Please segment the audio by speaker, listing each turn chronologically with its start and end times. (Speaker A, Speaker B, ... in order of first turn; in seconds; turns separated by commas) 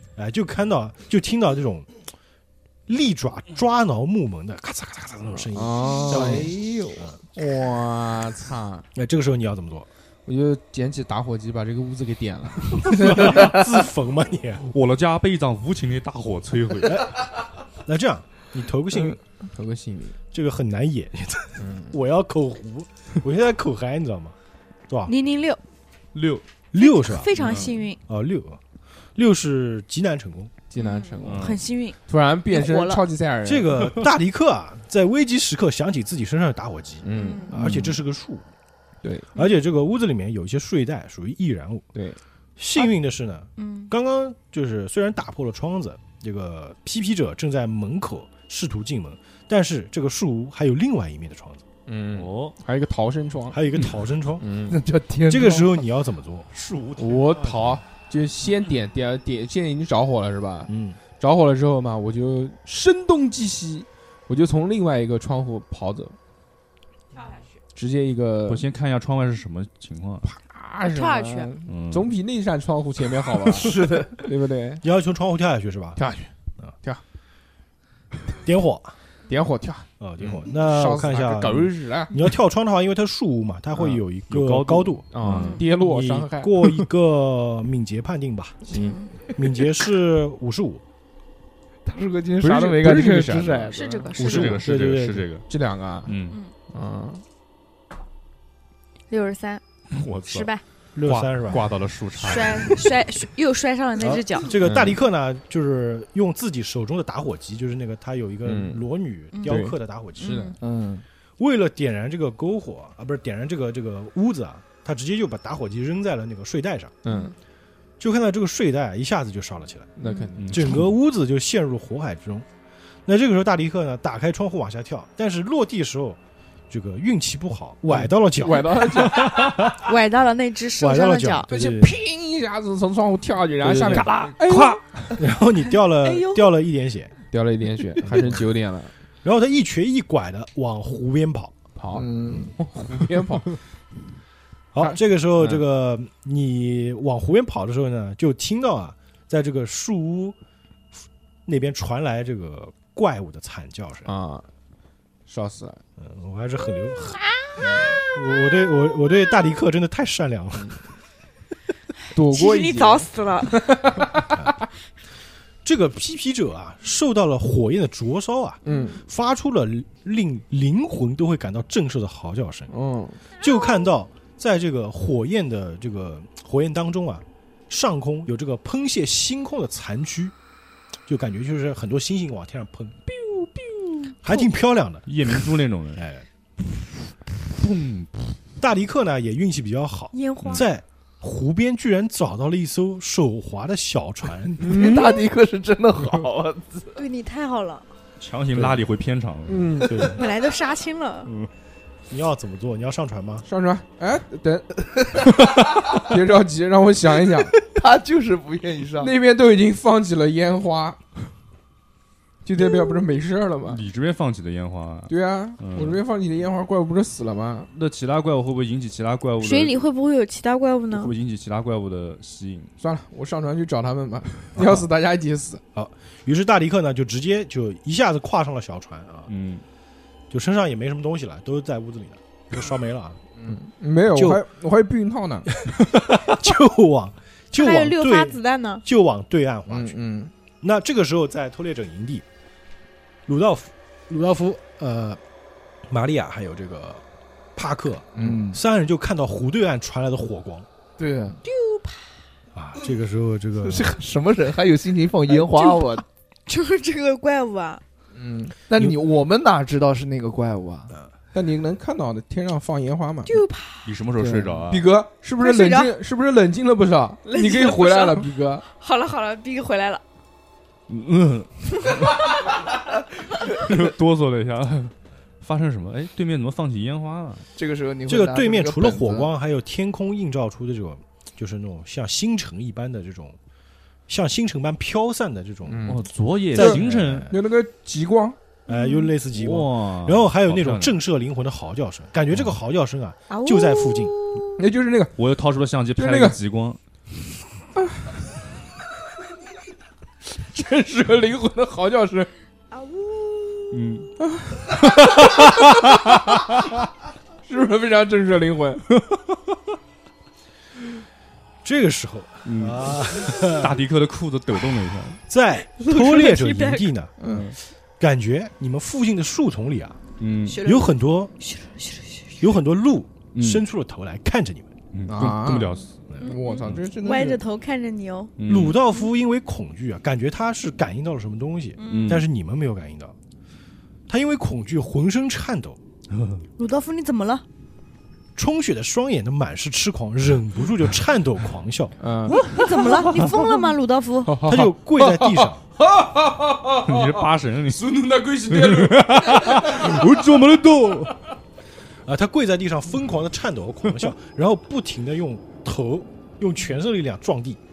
Speaker A: 0.2-2.0, Speaker A: 2.9-7.2, Speaker B: 5.5-8.9, Speaker C: 5.9-6.4, Speaker A: 8.9-9.9, Speaker B: 10.3-13.3, Speaker A: 12.9-14.7, Speaker D: 14.6-17.1, Speaker A: 16.9-17.2, Speaker A: 17.8-19.2, Speaker B: 18.9-20.2, Speaker A: 20.3-24.4, Speaker B: 21.6-21.9, Speaker A: 24.9-25.1, Speaker C: 25.1-25.6, Speaker D: 26.1-26.4, Speaker A: 26.7-27.4, Speaker C: 26.8-28.0, Speaker D: 27.3-27.8, Speaker A: 28.1-28.6, Speaker A: 29.1-30.5, Speaker B: 30.7-33.9, Speaker C: 30.8-32.0, Speaker D: 31.2-31.6, Speaker C: 32.5-33.0, Speaker A: 33.4-38.5, Speaker B: 37.0-37.9, Speaker C: 37.1-37.6, Speaker B: 39.0-39.3, Speaker A: 39.4-41.9, Speaker B: 42.0-42.2, Speaker A: 42.6-51.6, Speaker C: 43.6-43.9, Speaker B: 51.9-53.6, Speaker D: 52.1-52.6, Speaker A: 53.5-54.5, Speaker B: 54.4-54.8, Speaker E: 54.7-55.7, Speaker A: 55.3-56.5, Speaker D: 56.5-57.8, Speaker B: 57.0-66.2, Speaker A: 60.7-61.0, Speaker C: 67.2-67.4, Speaker B: 67.8-68.7, Speaker D: 68.5-70.3, Speaker B: 70.2-74.8, Speaker C: 70.8-71.5, Speaker D: 71.7-72.1, Speaker E: 73.6-74.1, Speaker A: 74.8-76.0, Speaker B: 76.0-77.0, Speaker A: 78.4-79.0, Speaker B: 79.3-79.9, Speaker A: 80.0-85.1, Speaker B: 80.5-82.1, Speaker D: 84.3-85.7, Speaker B: 85.1-86.5, Speaker C: 85.3-85.6, Speaker A: 85.7-90.8, Speaker C: 88.7-89.3, Speaker B: 88.7-89.0, Speaker E: 91.8-94.1, Speaker B: 92.4-93.7, Speaker C: 93.7-94.7, Speaker D: 94.2-95.5, Speaker A: 94.2-95.3, Speaker B: 95.5-96.1, Speaker D: 96.1-96.4, Speaker B: 96.7-97.2, Speaker C: 99.1-99.6, Speaker D: 99.9-100.5, Speaker C: 100.2-100.6, Speaker A: 101.0-101.7, Speaker B: 101.0-101.5, Speaker D: 101.1-102.8, Speaker C: 102.2-104.5, Speaker A: 104.0-110.5, Speaker B: 104.5-105.0, Speaker B: 108.5-108.8, Speaker C: 109.3-109.6, Speaker B: 109.5-110.5, Speaker C: 110.2-110.6, Speaker E: 110.6-111.0, Speaker A: 111.4-117.0, Speaker B: 117.0-117.3, Speaker C: 117.1-117.3, Speaker A: 118.0-120.0, Speaker B: 120.0-120.8, Speaker C: 120.0-120.3, Speaker D: 120.4-120.9, Speaker A: 120.5-122.5, Speaker A: 123.1-126.2, Speaker A: 126.7-129.7, Speaker B: 127.9-129.2, Speaker C: 129.6-131.5, Speaker A: 130.8-132.0, Speaker B: 131.5-134.8, Speaker E: 133.6-134.3, Speaker D: 133.9-135.1, Speaker A: 135.2-137.1, Speaker C: 136.0-136.4, Speaker B: 137.3-138.9, Speaker A: 138.0-138.4, Speaker A: 139.2-141.6, Speaker B: 141.8-143.6, Speaker E: 141.9-142.5, Speaker A: 144.7-150.4, Speaker B: 144.8-145.6, Speaker A: 151.5-154.1, Speaker B: 154.1-154.5, Speaker B: 155.3-155.8, Speaker A: 156.0-160.8, Speaker C: 157.2-159.3, Speaker B: 157.6-158.0, Speaker B: 162.1-164.3, Speaker C: 162.3-163.9, Speaker A: 165.6-172.7, Speaker B: 168.6-169.0, Speaker C: 168.7-169.0, Speaker B: 172.7-173.2, Speaker A: 173.4-180.3, Speaker A: 181.1-183.0, Speaker B: 183.2-184.0, Speaker A: 184.2-185.1, Speaker D: 185.1-186.0, Speaker A: 186.0-186.2, Speaker D: 186.8-188.4, Speaker A: 188.6-194.8, Speaker C: 190.1-190.7, Speaker E: 194.6-197.0, Speaker B: 194.6-195.1, Speaker C: 194.9-195.2, Speaker C: 197.0-197.8, Speaker D: 198.2-199.9, Speaker B: 199.5-200.1, Speaker A: 199.9-200.3, Speaker C: 200.0-201.3, Speaker A: 202.1-203.4, Speaker B: 203.4-207.6, Speaker E: 207.6-209.1, Speaker B: 209.0-211.0, Speaker B: 212.4-213.8, Speaker D: 213.7-216.0, Speaker B: 215.1-217.7, Speaker D: 217.7-219.8, Speaker C: 219.4-221.1, Speaker D: 220.9-222.7, Speaker B: 222.8-225.6, Speaker A: 224.6-224.8, Speaker A: 225.7-229.3, Speaker D: 229.3-229.6, Speaker A: 230.3-233.2, Speaker B: 233.4-235.5, Speaker A: 234.1-234.4, Speaker A: 235.6-240.0, Speaker C: 237.6-238.8, Speaker B: 239.7-240.3, Speaker A: 240.6-242.2, Speaker A: 243.3-245.2, Speaker A: 245.9-247.0, Speaker A: 247.6-250.7, Speaker B: 248.2-248.4, Speaker E: 248.2-248.6, Speaker E: 251.0-251.4, Speaker C: 251.4-252.1, Speaker A: 252.5-254.0, Speaker E: 253.6-256.0, Speaker C: 255.5-257.8, Speaker B: 258.1-258.6, Speaker E: 258.7-261.0, Speaker B: 261.3-263.4, Speaker C: 263.3-263.9, Speaker D: 263.9-264.9, Speaker E: 264.2-264.6, Speaker B: 264.7-268.6, Speaker C: 265.4-265.9, Speaker C: 267.3-270.0, Speaker D: 270.9-272.1, Speaker D: 273.5-277.5, Speaker E: 277.6-279.3, Speaker A: 278.1-283.4, Speaker A: 284.1-285.9, Speaker B: 285.7-288.4, Speaker D: 285.9-287.3, Speaker A: 286.5-287.4, Speaker A: 288.7-294.1, Speaker C: 288.7-289.1, Speaker D: 289.3-291.0, Speaker C: 293.3-294.6, Speaker B: 294.6-295.2, Speaker D: 295.2-296.8, Speaker B: 296.0-296.4, Speaker B: 297.8-298.1, Speaker B: 300.4-302.3, Speaker C: 302.7-303.8, Speaker D: 303.7-304.1, Speaker B: 304.3-304.8, Speaker D: 304.7-306.4, Speaker B: 307.4-308.9, Speaker D: 308.9-309.4, Speaker A: 311.6-313.8, Speaker D: 312.4-315.2, Speaker A: 315.2-317.1, Speaker C: 315.7-316.9, Speaker B: 317.2-317.5, Speaker D: 317.2-317.6, Speaker A: 318.0-320.0, Speaker D: 320.2-320.6, Speaker C: 320.4-322.5, Speaker A: 320.6-321.3, Speaker A: 322.4-324.7, Speaker D: 323.3-323.6, Speaker D: 324.9-326.9, Speaker B: 325.1-327.4, Speaker C: 326.2-328.4, Speaker D: 328.4-328.8, Speaker A: 328.5-333.1, Speaker C: 331.8-332.2, Speaker D: 331.9-332.2, Speaker A: 334.1-335.8, Speaker D: 336.1-336.4, Speaker C: 336.6-337.4, Speaker A: 338.4-342.0, Speaker B: 342.0-343.2, Speaker C: 342.3-344.4, Speaker B: 344.2-350.0, Speaker A: 344.5-345.6, Speaker D: 346.9-351.1, Speaker A: 349.7-351.1, Speaker A: 352.1-357.6